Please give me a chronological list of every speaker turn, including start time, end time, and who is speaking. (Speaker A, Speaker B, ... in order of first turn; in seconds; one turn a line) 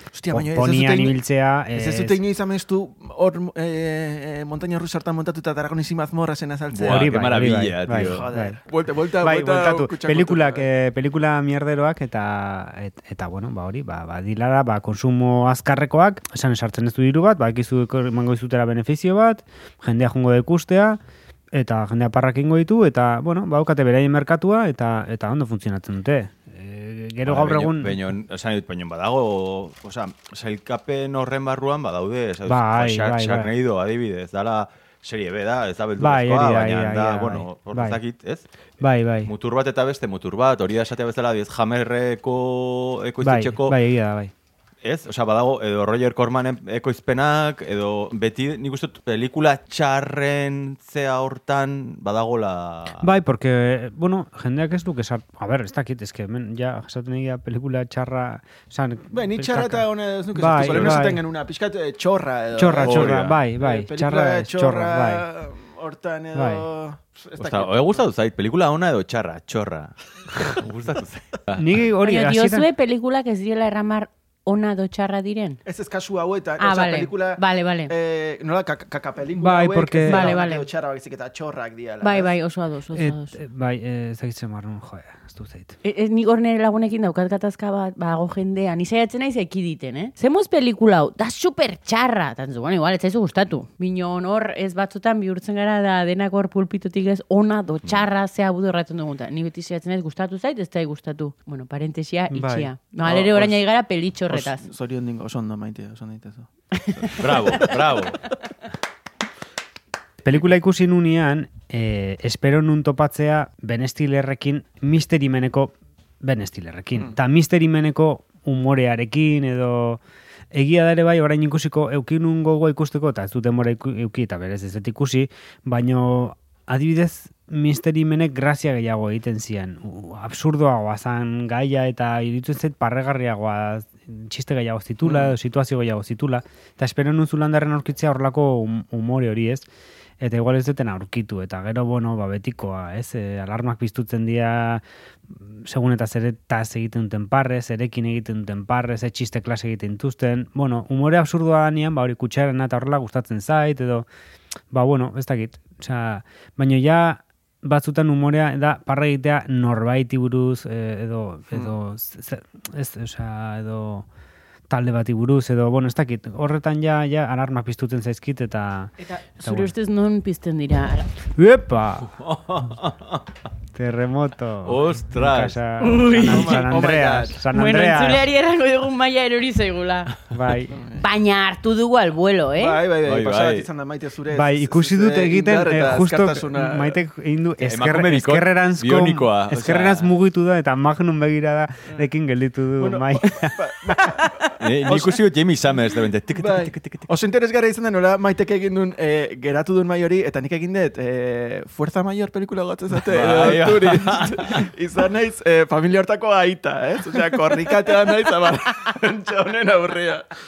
Speaker A: 0.1-1.2
Speaker B: 0.3-2.2
Speaker A: 1.7-7.2
Speaker C: 6.7-8.3
Speaker B: 6.8-8.6
Speaker A: 8.0-10.6
Speaker B: 9.2-21.0
Speaker B: 21.5-28.1
Speaker C: 27.2-38.4
Speaker B: 32.5-33.5
Speaker B: 36.0-38.0
Speaker B: 38.8-39.3
Speaker C: 39.2-43.8
Speaker B: 43.2-44.3
Speaker C: 44.8-53.1
Speaker B: 53.0-61.2
Speaker A: 59.1-68.1
Speaker C: 60.5-61.0
Speaker B: 62.5-65.3
Speaker C: 62.8-63.4
Speaker B: 66.3-66.7
Speaker C: 67.4-71.8
Speaker B: 71.5-72.7
Speaker D: 72.0-75.6
Speaker A: 75.6-82.3
Speaker D: 76.6-77.9
Speaker B: 79.4-80.3
Speaker D: 80.0-80.7
Speaker D: 82.0-83.4
Speaker B: 82.9-85.7
Speaker D: 85.8-104.6
Speaker B: 102.3-102.7
Speaker A: 103.0-103.6
Speaker A: 104.3-107.7
Speaker C: 107.1-108.2
Speaker B: 110.2-120.0
Speaker B: 120.5-139.7
Speaker A: 135.0-135.3
Speaker B: 140.2-154.1
Speaker B: 154.7-164.1
Speaker B: 164.7-169.7
Speaker D: 169.3-171.1
Speaker B: 171.3-172.1
Speaker C: 172.1-173.2
Speaker B: 173.7-178.3
Speaker C: 174.6-175.6
Speaker D: 175.8-176.7
Speaker A: 176.2-177.4
Speaker D: 177.5-180.2
Speaker B: 180.3-180.8
Speaker A: 180.7-181.0
Speaker D: 180.9-182.8
Speaker A: 182.6-187.0
Speaker C: 183.0-183.7
Speaker B: 184.3-194.2
Speaker C: 187.6-190.1
Speaker A: 192.8-195.2
Speaker D: 194.2-194.5
Speaker C: 194.6-197.1
Speaker A: 196.3-210.2
Speaker C: 202.9-204.7